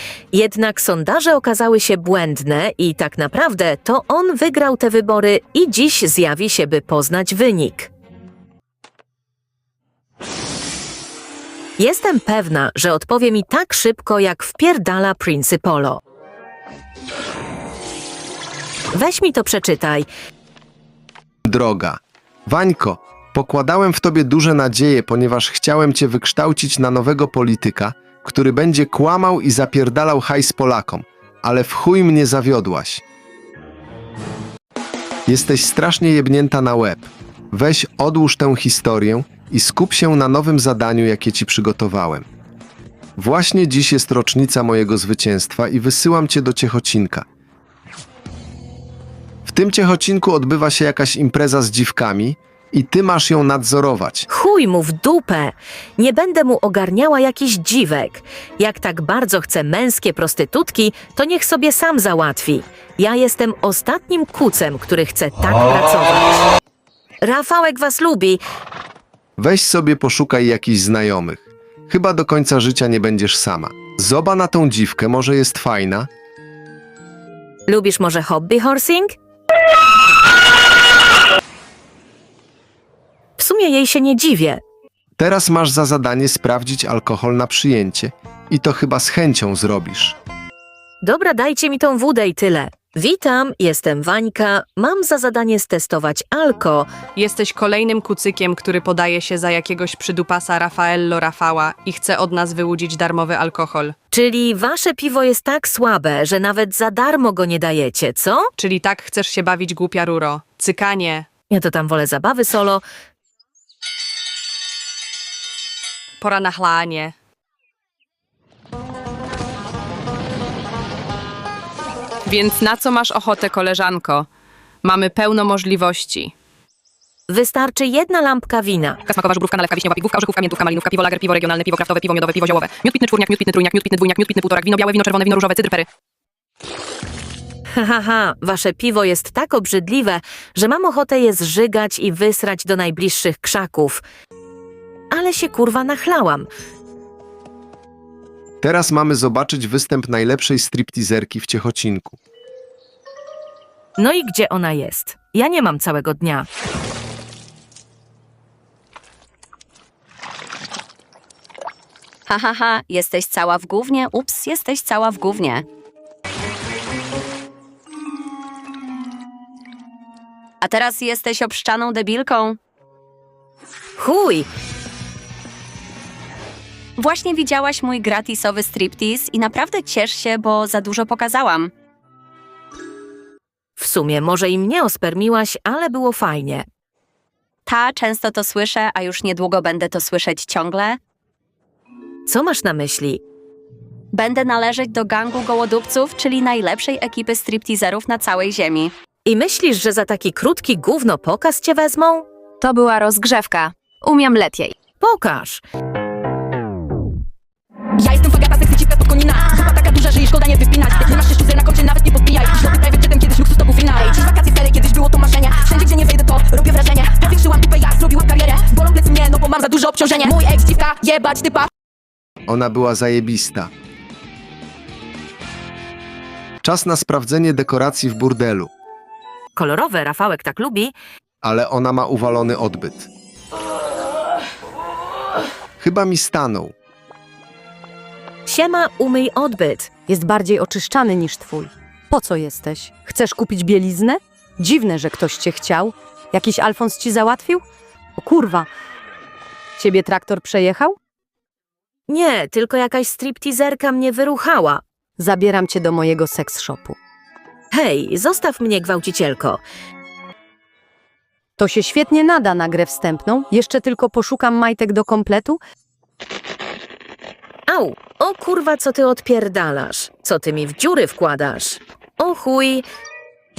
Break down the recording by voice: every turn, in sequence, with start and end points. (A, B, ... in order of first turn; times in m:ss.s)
0:00.3-0:07.9 A
0:11.8-0:16.0 A
0:18.9-0:20.1 A
0:21.5-0:33.0 B
0:35.3-0:42.3 B
0:43.2-0:47.2 B
0:49.5-0:54.3 B
0:54.3-1:06.4 A
1:07.2-1:08.4 A
1:09.4-1:16.1 B
1:17.7-1:19.2 A
1:23.4-1:24.6 A
1:25.2-1:30.2 B
1:31.0-1:37.0 A
1:37.2-1:43.9 C
1:44.1-1:48.5 A
1:48.6-1:51.3 C
1:51.5-1:52.8 A
1:56.2-1:57.1 C
2:02.3-2:04.3 C
2:04.8-2:06.3 C
2:07.3-2:09.0 A
2:09.1-2:15.9 C
2:17.8-2:24.0 A
2:25.1-2:26.5 A
2:28.6-2:32.2 B
2:34.0-2:36.5 A
2:42.3-2:45.6 D
2:50.6-2:52.6 D
2:54.0-2:54.5 A
2:57.0-3:01.7 D
3:03.8-3:06.7 A
3:07.7-3:11.0 D
3:12.3-3:13.2 A
3:14.1-3:18.9 D
3:19.2-3:22.3 A
3:24.1-3:24.6 D
3:25.0-3:25.6 A
3:28.0-3:41.7 E
3:42.5-3:43.7 B
3:46.6-3:48.7 B
3:49.6-3:50.9 A
3:51.4-3:53.1 B
3:55.8-3:56.7 B
3:58.5-3:59.9 A
4:00.1-4:07.6 F
4:08.2-4:08.7 F
4:09.8-4:11.0 F
4:12.1-4:14.8 A
4:15.2-4:17.0 F
4:17.7-4:19.6 A
4:21.6-4:25.6 F
4:27.7-4:32.8 A